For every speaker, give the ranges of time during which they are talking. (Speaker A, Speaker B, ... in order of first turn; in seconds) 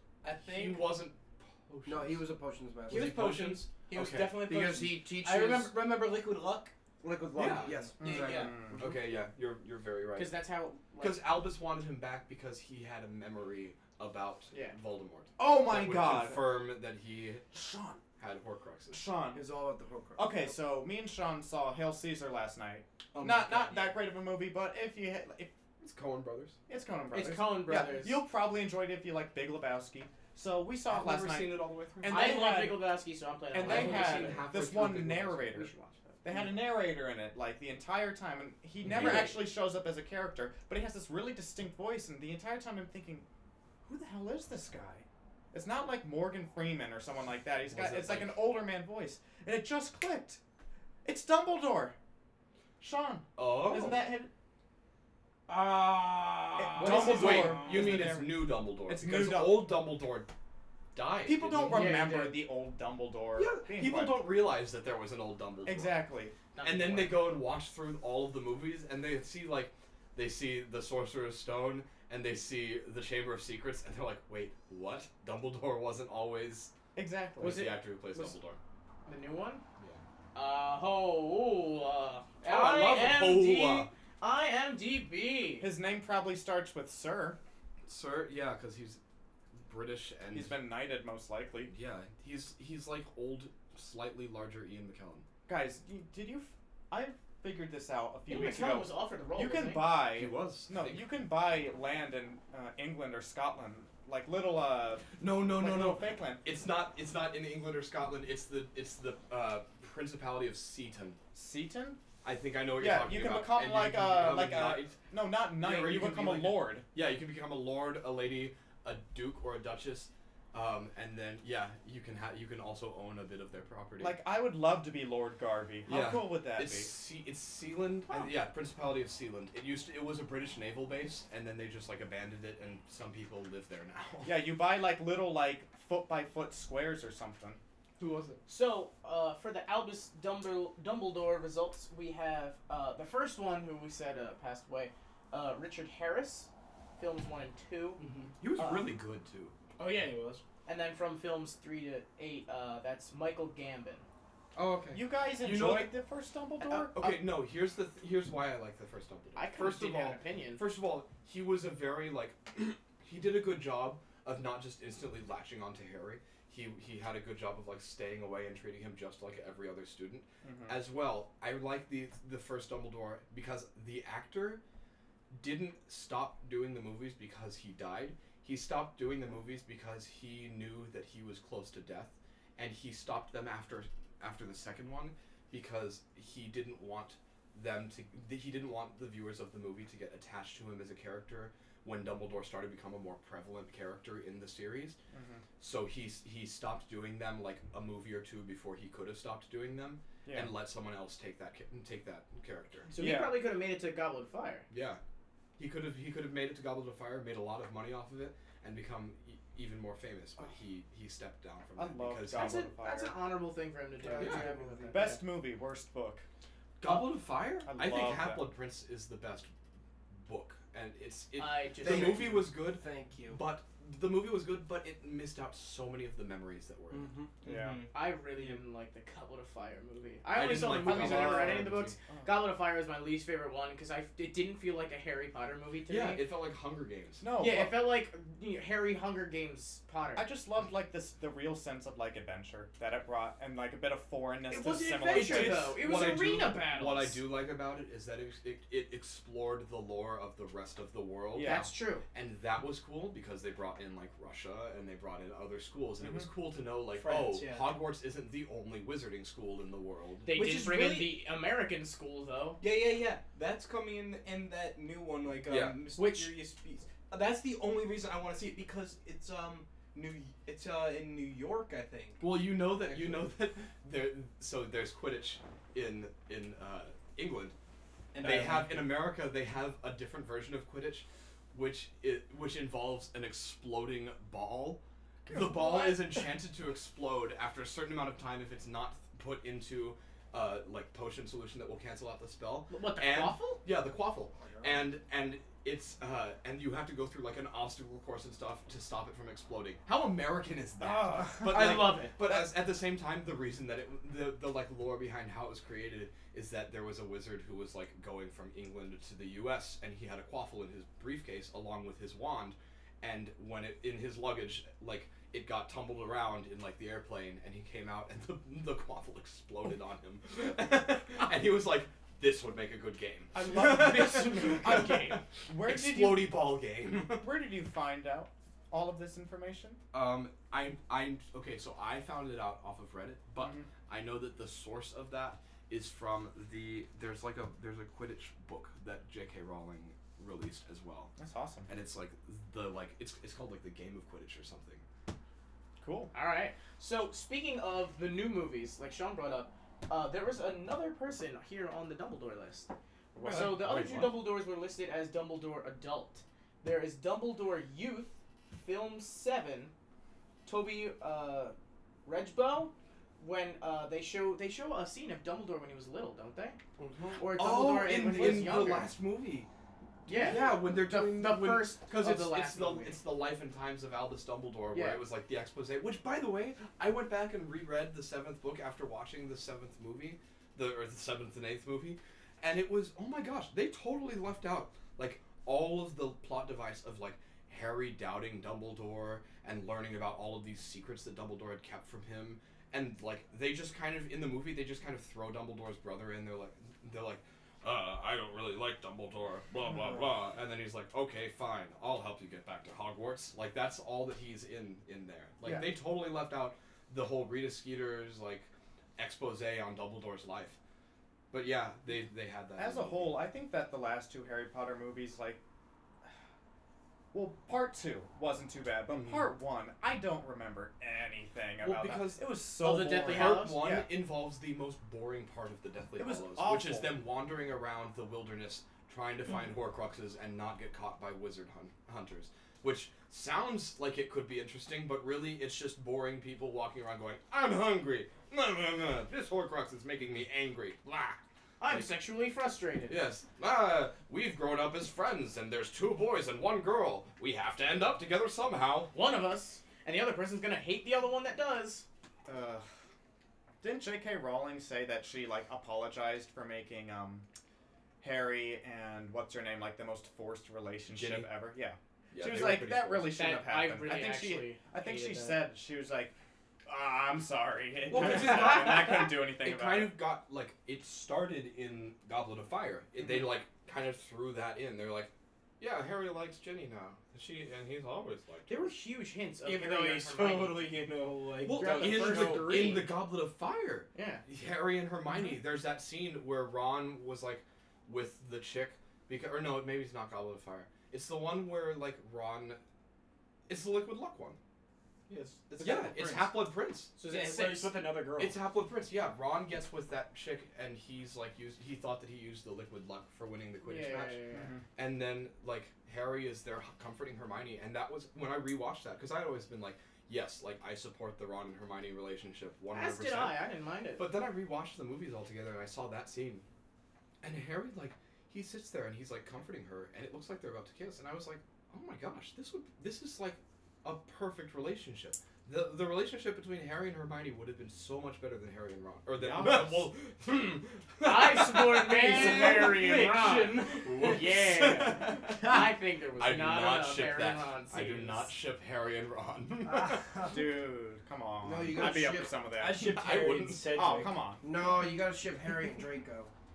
Speaker A: 0.2-1.0, 2.9-6.7, 7.7-8.6, 23.2-23.9, 55.5-58.2, 148.0-148.3, 149.8-150.4, 227.4-228.6, 256.9-257.8, 260.3-261.2, 262.6-273.3, 278.1-279.0, 479.4-482.9, 495.1-496.3, 497.0-498.4, 531.8-534.3, 542.5-544.2
Speaker B: 0.4-2.3, 2.9-4.4, 7.3-7.9, 8.8-10.3, 11.0-17.5, 18.2-19.0, 25.8-26.6, 30.9-32.4, 33.5-35.7, 38.9-39.4, 47.7-48.4, 53.4-54.0, 56.8-60.3, 61.0-61.9, 63.4-66.0, 66.6-76.7, 77.4-78.6, 82.4-83.9, 87.8-89.0, 89.5-90.6, 91.7-95.2, 100.1-101.0, 105.2-111.2, 112.2-115.0, 115.6-124.2, 125.9-134.4, 138.0-138.4, 148.4-149.5, 154.6-155.9, 156.9-174.6, 175.3-195.0, 195.6-202.9, 204.7-205.0, 205.6-212.7, 214.2-214.5, 216.8-219.5, 220.1-227.1, 230.3-232.0, 235.9-237.2, 245.1-251.6, 252.1-260.3, 265.4-265.8, 272.2-277.6, 278.2-327.3, 329.9-341.1, 341.7-344.8, 353.2-354.2, 367.2-369.5, 370.1-410.6, 411.3-413.2, 418.9-419.3, 421.6-422.2, 423.1-441.9, 442.9-448.9, 460.9-461.4, 462.1-463.2, 467.9-478.7, 481.4-492.6, 493.5-494.4, 495.6-496.9, 498.2-504.2, 504.8-513.4, 514.0-516.5, 517.2-532.7, 533.8-540.2, 542.8-543.8
Speaker C: 1.9-3.3, 4.3-5.8, 7.0-9.0, 19.3-20.5, 214.0-215.2, 221.8-223.4, 226.9-227.3, 366.8-367.2, 541.4-542.4, 544.4-546.3
Speaker D: 8.0-8.9, 15.4-16.7, 17.5-18.0, 18.9-19.4, 20.2-25.5, 26.7-32.8, 33.5-35.7, 36.2-43.2, 43.9-50.4, 51.0-52.0, 52.8-54.3, 56.6-59.8, 61.2-64.3, 65.7-66.4, 77.0-77.7, 85.6-87.4, 90.3-91.7, 95.5-106.4, 111.3-112.0, 112.8-116.8, 124.0-126.9, 134.2-137.6, 154.9-157.0, 170.4-170.8, 195.1-195.4, 200.3-200.6, 203.0-203.4, 211.8-213.2, 214.9-216.2, 217.6-218.5, 227.4-227.8, 230.8-232.3, 237.2-237.8, 240.2-245.8, 251.3-251.7, 256.0-256.3, 300.8-302.4, 323.3-326.4, 327.2-329.8, 333.4-333.7, 341.2-341.7, 345.8-346.1, 353.1-353.7, 412.6-415.4, 417.1-423.9, 426.0-427.0, 452.3-452.7, 453.6-457.3, 458.0-466.1, 466.7-470.0, 504.3-504.6, 529.2-529.9, 540.2-543.0, 543.7-544.4
Speaker E: 10.2-11.3, 14.5-14.8, 27.1-28.2, 32.1-34.6, 35.5-36.2, 61.7-62.5, 66.5-67.3, 77.4-78.4, 79.1-79.6, 80.3-85.7, 98.3-99.9, 138.5-148.0, 148.6-148.9, 150.7-154.1, 156.6-157.2, 159.4-160.6, 202.9-204.7, 212.3-215.2, 221.4-222.3, 227.9-236.2, 237.4-240.3, 244.5-247.2, 251.4-252.0, 260.3-262.6, 266.0-266.4, 292.7-293.6, 301.4-302.3, 323.6-325.0, 346.1-352.7, 353.2-359.7, 360.5-366.6, 367.2-368.9, 370.1-373.0, 374.7-375.0, 422.6-423.6, 441.6-443.0, 448.9-451.9, 463.1-465.4, 478.5-480.8, 481.5-483.0, 483.9-484.2, 497.0-497.9, 503.6-504.5, 512.7-514.1, 531.0-538.3